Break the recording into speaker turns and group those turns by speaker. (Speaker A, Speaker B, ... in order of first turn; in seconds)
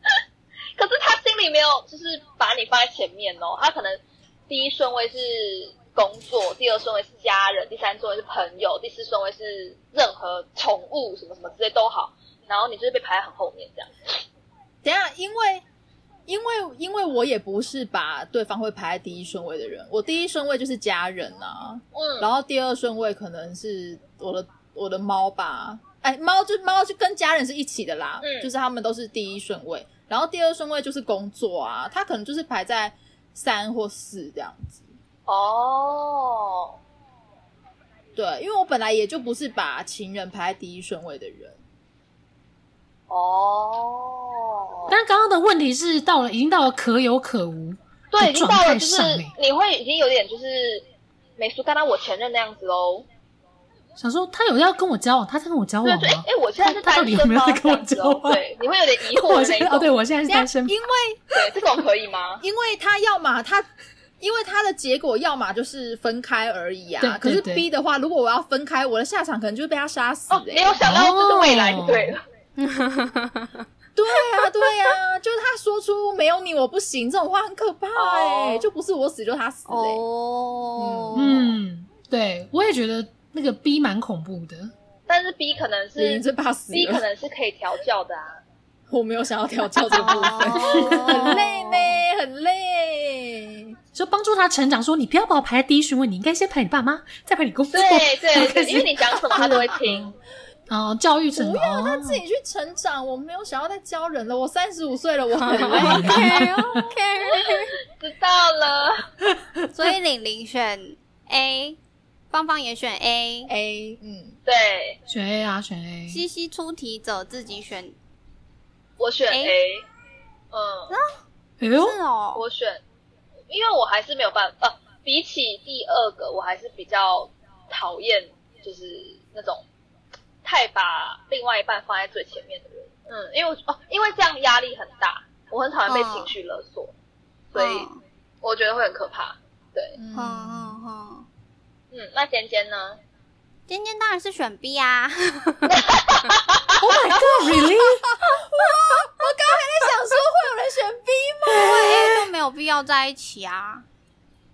Speaker A: 0.8-14.2, 21.9-22.3, 28.2-28.5, 35.3-36.8, 43.1-45.0, 48.1-50.9, 51.4-53.1, 55.9-59.9, 61.3-62.4, 70.3-72.2, 78.0-78.7, 85.1-88.4, 90.6-91.3, 97.7-100.1, 107.3-109.1, 114.5-115.0, 119.0-119.9, 120.5-121.0, 122.4-122.8, 123.5-129.6, 130.4-136.9, 137.5-137.9, 138.4-140.0, 141.9-143.0, 145.7-147.2
Speaker B: 14.8-15.6, 16.3-34.9, 38.1-41.6, 60.3-61.2, 62.4-63.7, 64.2-70.8, 74.0-80.0, 80.8-81.3, 86.0-87.0, 88.9-93.8, 99.4-99.6, 101.3-106.5, 113.5-114.4, 140.0-140.8, 147.8-151.9
Speaker C: 44.9-49.3, 54.0-58.4, 59.1-60.8, 67.0-67.7, 70.8-72.2, 81.1-84.7, 90.6-91.3, 93.9-100.1, 100.7-102.2, 105.7-106.8, 115.1-116.2, 121.6-122.0, 146.8-148.1, 151.6-152.1
Speaker D: 72.6-73.6, 79.7-81.5, 90.0-91.5, 105.4-107.8, 109.7-111.8, 112.3-113.5, 116.1-118.0, 120.9-121.2, 121.7-122.4, 135.9-136.3, 137.6-138.0, 140.1-141.3, 143.7-145.8, 151.5-153.8